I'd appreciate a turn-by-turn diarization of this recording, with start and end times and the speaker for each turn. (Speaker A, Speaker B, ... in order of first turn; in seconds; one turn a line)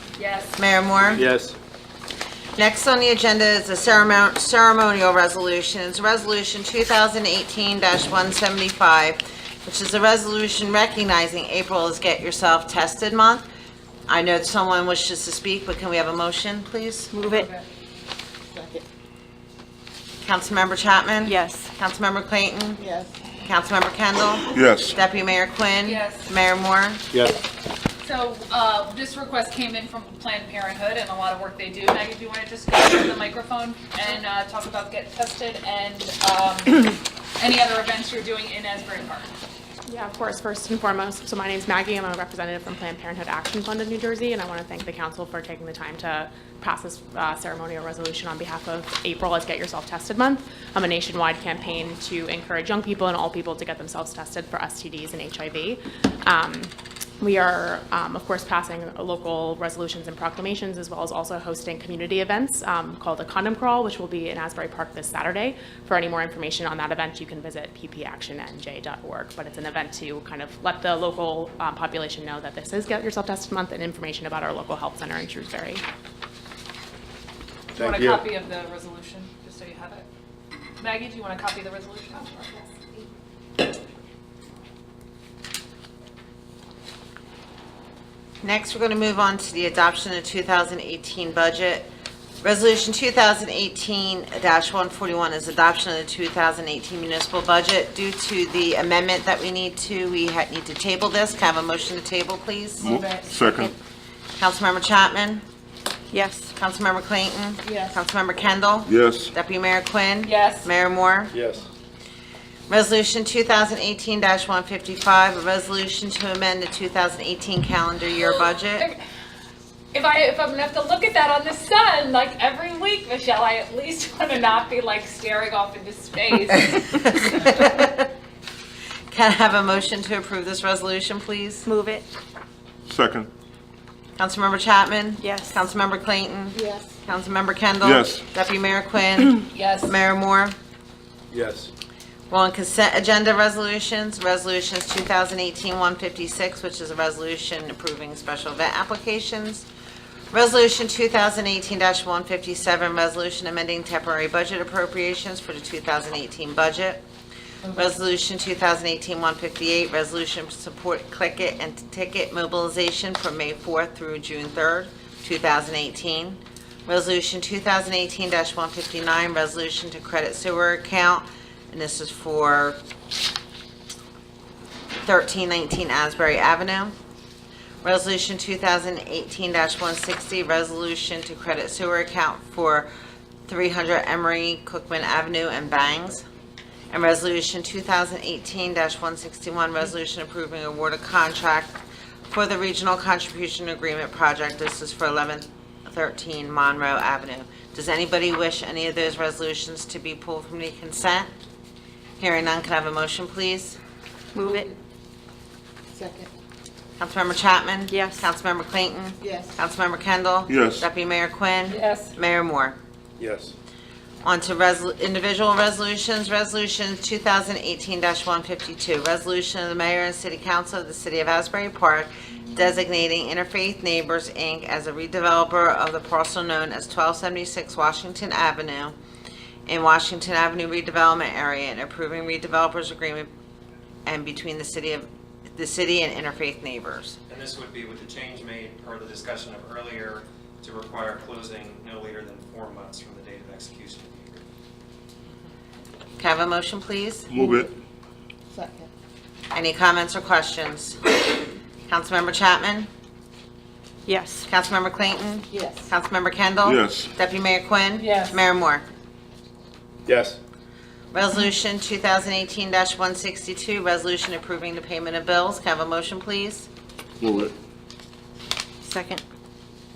Speaker A: 0.2-0.6
Speaker B: 0.6-1.2
Speaker C: 1.1-1.6
Speaker B: 2.6-13.4
Speaker B: 14.1-17.1
Speaker D: 17.1-17.5
Speaker A: 17.2-17.6
Speaker E: 18.5-18.9
Speaker B: 20.2-22.8
Speaker D: 21.2-21.7
Speaker E: 22.8-23.1
Speaker B: 23.4-27.0
Speaker F: 24.5-25.0
Speaker A: 25.8-26.3
Speaker C: 27.1-27.4
Speaker A: 28.0-39.3
Speaker G: 39.9-75.8
Speaker A: 77.7-80.1
Speaker C: 77.8-78.2
Speaker A: 80.8-82.8
Speaker B: 88.4-91.9
Speaker B: 92.4-103.0
Speaker A: 102.8-103.3
Speaker F: 102.8-103.7
Speaker B: 104.4-105.4
Speaker D: 106.1-106.5
Speaker B: 106.6-111.3
Speaker E: 107.6-108.0
Speaker F: 108.9-109.3
Speaker A: 110.2-110.7
Speaker C: 111.3-111.7
Speaker B: 112.7-118.9
Speaker A: 118.2-119.0
Speaker A: 119.9-127.0
Speaker B: 126.7-128.1
Speaker B: 129.1-131.7
Speaker D: 131.7-132.1
Speaker F: 132.9-133.3
Speaker B: 134.2-140.6
Speaker D: 135.2-135.7
Speaker E: 136.5-137.0
Speaker F: 137.8-138.2
Speaker A: 139.5-139.9
Speaker C: 141.3-141.7
Speaker B: 142.3-149.7
Speaker B: 150.3-157.0
Speaker B: 157.7-172.8
Speaker B: 175.0-176.9
Speaker B: 177.8-182.9
Speaker B: 183.5-186.2
Speaker B: 186.9-191.7
Speaker B: 192.3-201.3
Speaker B: 202.2-203.8
Speaker D: 204.3-204.7
Speaker E: 205.9-206.3
Speaker B: 207.0-212.8
Speaker D: 207.9-208.3
Speaker E: 209.2-209.6
Speaker F: 210.5-210.9
Speaker A: 211.7-212.1
Speaker C: 213.2-213.5
Speaker B: 214.2-228.9
Speaker B: 229.7-233.3
Speaker B: 234.1-237.2
Speaker H: 237.3-244.4
Speaker B: 246.2-247.3
Speaker F: 247.3-247.7
Speaker E: 248.5-248.9
Speaker B: 249.5-251.0
Speaker B: 251.9-252.9
Speaker D: 254.1-254.5
Speaker B: 254.5-258.9
Speaker E: 255.5-255.9
Speaker F: 256.6-257.1
Speaker A: 258.0-258.4
Speaker C: 260.1-260.4
Speaker B: 261.1-266.7
Speaker F: 267.2-267.5
Speaker D: 268.8-269.2